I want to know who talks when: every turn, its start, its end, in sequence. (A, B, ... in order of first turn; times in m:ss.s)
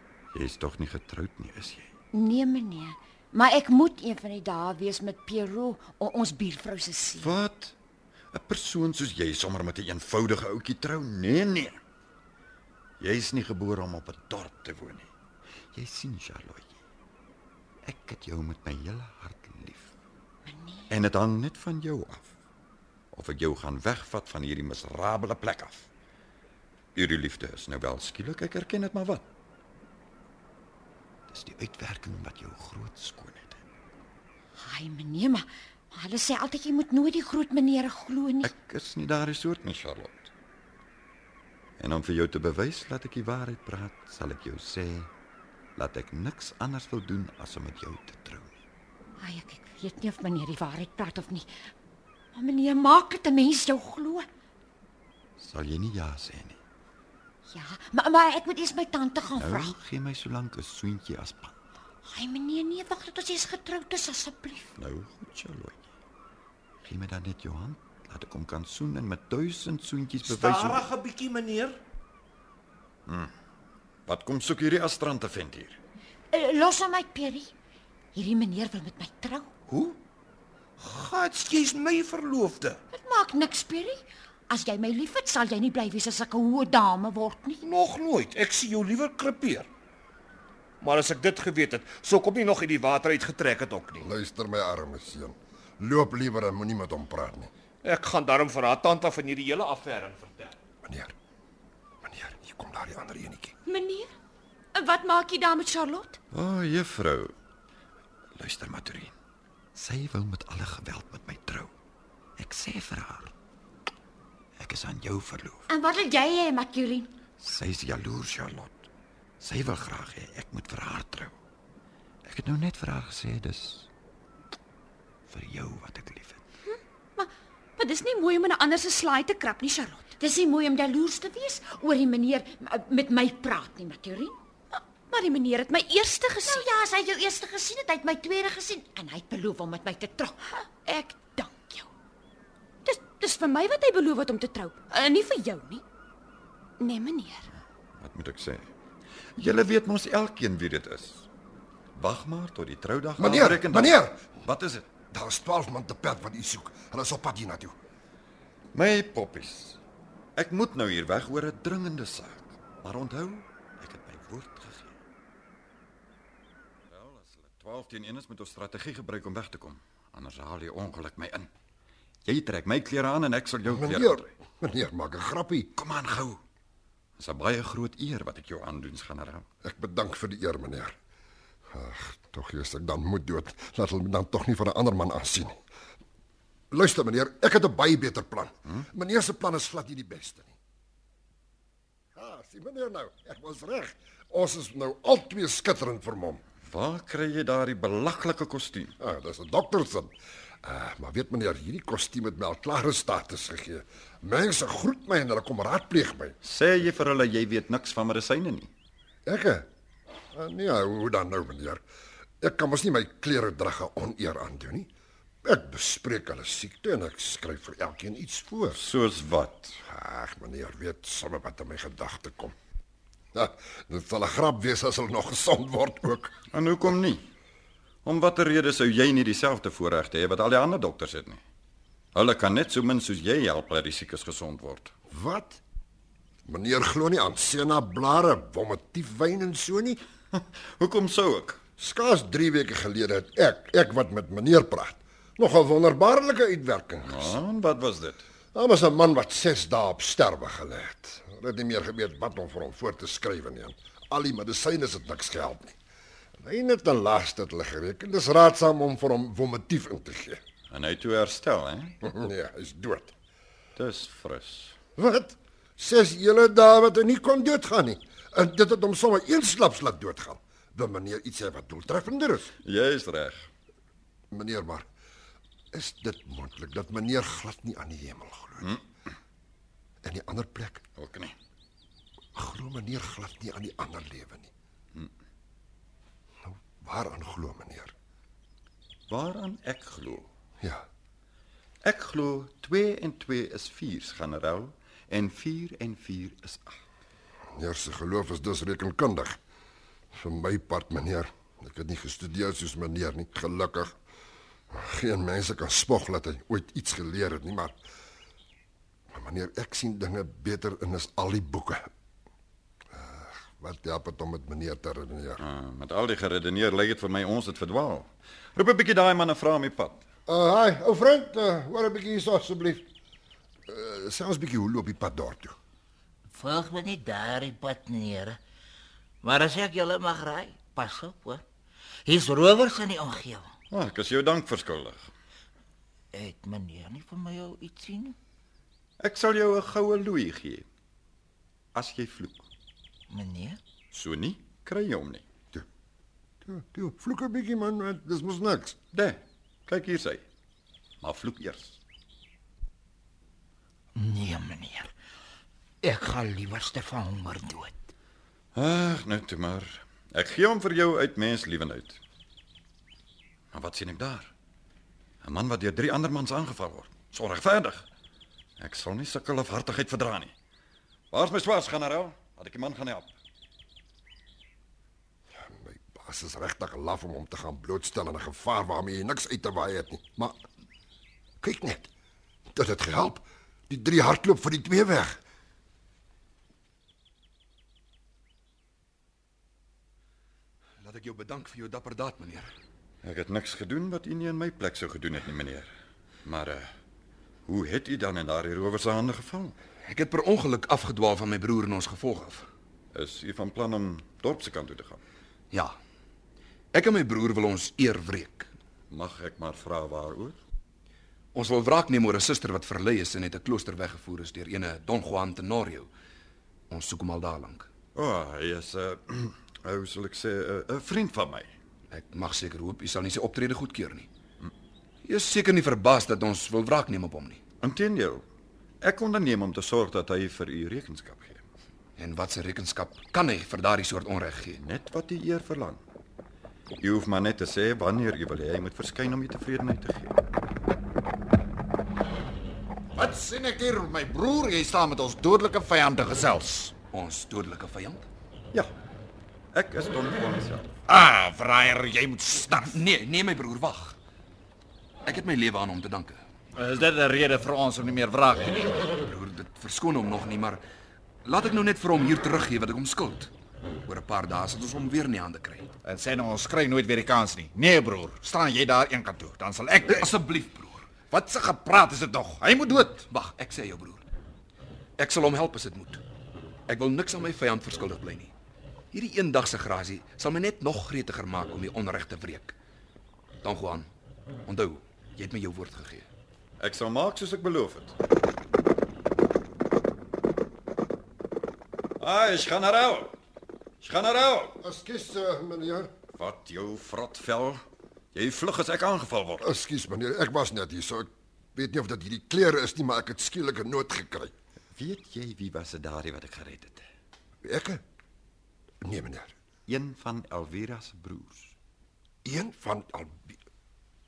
0:00.3-0:01.9 A
0:02.1-0:07.4 B
0:07.2-0:07.8 A
0:08.3-0:11.8 A
0:13.0-0:15.1 A
0:15.7-0:16.8 A
0:17.8-0:19.9 A
0:20.4-0:20.9 B
0:20.9-0:22.3 A
0:23.1-0:25.9 A
0:27.0-0:29.3 A
0:31.3-0:33.6 A
0:34.6-0:38.5 B
0:38.4-0:40.3 A
0:41.8-0:45.1 A
0:45.8-0:48.5 A
0:49.2-0:51.7 B
0:52.3-0:54.3 B
0:55.4-0:56.6 A
0:57.5-0:59.8 B
0:59.4-1:01.6 A
1:02.0-1:04.8 B
1:04.8-1:05.8 A
1:06.8-1:10.9 A
1:10.2-1:11.8 C
1:13.1-1:13.3 A
1:14.1-1:15.8 A
1:16.3-1:17.5 B
1:18.1-1:19.5 B
1:19.7-1:20.0 C
1:20.8-1:22.8 C
1:22.9-1:27.6 B
1:27.6-1:29.7 C
1:30.8-1:34.0 C
1:34.0-1:37.5 D
1:37.8-1:40.6 C
1:40.8-1:41.1 D
1:42.0-1:43.5 D
1:43.6-1:44.2 E
1:44.8-1:46.2 E
1:46.3-1:47.3 A
1:48.4-1:49.1 A
1:49.8-1:51.7 A
1:52.4-1:53.3 A
1:54.6-1:55.7 A
1:55.7-1:57.1 B
1:57.4-1:58.8 A
1:59.4-2:01.4 A
2:02.3-2:03.9 A
2:05.3-2:06.4 A
2:06.7-2:10.1 E
2:10.2-2:14.4 B
2:14.7-2:16.7 E
2:16.4-2:21.9 B
2:20.9-2:21.6 E
2:22.8-2:25.8 E
2:26.8-2:27.4 E
2:28.0-2:28.7 A
2:29.4-2:31.3 A
2:32.0-2:34.9 A
2:33.2-2:34.2 D
2:35.1-2:37.8 D
2:38.7-2:39.8 A
2:40.4-2:44.9 A
2:46.9-2:51.5 A
2:52.2-2:54.3 A
2:53.7-2:55.7 D
2:55.8-2:56.4 A
2:57.2-2:59.4 A
2:59.6-3:01.0 D
3:01.7-3:05.6 D
3:06.7-3:10.6 D
3:12.2-3:16.4 D
3:16.7-3:19.0 A
3:19.0-3:26.4 D
3:26.4-3:28.7 A
3:29.3-3:29.7 D
3:30.3-3:31.8 D
3:32.4-3:34.9 D
3:35.4-3:38.8 D
3:38.7-3:39.8 A
3:39.8-3:42.6 D
3:43.3-3:46.3 D
3:46.5-3:47.2 A
3:48.0-3:51.4 A
3:52.1-3:54.9 A
3:55.1-3:55.6 D
3:56.5-4:00.0 D
4:00.3-4:01.6 A
4:01.8-4:07.4 D
4:07.0-4:08.3 A
4:08.5-4:15.8 D
4:16.4-4:20.4 D
4:20.7-4:22.0 A
4:22.0-4:23.1 D
4:23.8-4:24.8 A
4:25.0-4:32.5 D
4:32.6-4:33.5 A
4:34.3-4:34.9 D
4:35.7-4:38.8 D
4:40.0-4:40.8 D
4:41.0-4:41.4 A
4:42.4-4:44.5 D
4:46.4-4:47.9 D
4:49.1-4:50.3 A
4:51.8-4:56.8 A
4:57.6-4:59.4 D
5:00.1-5:04.0 D
5:04.7-5:07.8 D
5:09.1-5:11.9 D
5:12.9-5:15.4 D
5:15.4-5:20.1 A
5:20.3-5:22.8 D
5:23.7-5:25.6 D
5:26.3-5:28.4 F
5:29.2-5:31.4 F
5:32.1-5:33.5 F
5:33.7-5:35.1 A
5:36.1-5:38.2 F
5:39.0-5:40.6 A
5:41.7-5:42.5 A
5:43.1-5:43.6 F
5:43.9-5:45.2 A
5:46.5-5:48.8 D
5:48.9-5:50.2 A
5:51.0-5:51.8 A
5:54.0-5:54.9 F
5:55.8-5:57.9 F
5:58.6-6:02.0 A
6:03.5-6:04.3 A
6:05.2-6:07.9 A
6:08.6-6:10.3 A
6:11.1-6:13.1 A
6:15.3-6:20.4 D
6:21.4-6:21.9 D
6:22.5-6:25.2 D
6:30.8-6:32.5 G
6:33.0-6:35.7 A
6:36.2-6:36.7 A
6:37.5-6:39.6 A
6:39.8-6:42.5 G
6:42.9-6:45.0 A
6:45.5-6:45.8 G
6:46.7-6:48.5 G
6:48.9-6:50.4 A
6:51.3-6:55.9 G
6:56.7-6:57.7 G
6:58.0-7:01.5 A
7:01.9-7:04.1 G
7:05.0-7:07.4 G
7:07.6-7:08.2 A
7:08.8-7:11.4 A
7:12.0-7:14.6 G
7:14.6-7:15.8 A
7:16.8-7:20.2 A
7:23.0-7:26.7 H
7:26.9-7:28.0 G
7:29.5-7:30.8 A
7:30.9-7:32.8 H
7:32.6-7:34.0 G
7:35.0-7:36.2 G
7:36.6-7:38.8 H
7:39.0-7:40.6 G
7:41.2-7:43.3 G
7:43.9-7:45.7 G
7:45.8-7:50.2 H
7:49.9-7:50.9 G
7:51.1-7:53.1 H
7:53.1-7:54.0 G
7:55.0-7:56.0 G
7:56.7-7:58.3 G
7:58.9-8:02.6 G
8:03.4-8:03.9 G
8:04.5-8:06.1 G
8:06.6-8:08.0 A
8:12.0-8:13.1 A
8:13.8-8:14.6 A
8:14.6-8:15.9 D
8:16.2-8:19.5 A
8:19.4-8:24.3 D
8:24.8-8:26.9 A
8:27.4-8:27.8 D
8:28.8-8:29.4 D
8:29.7-8:31.6 A
8:32.2-8:33.4 D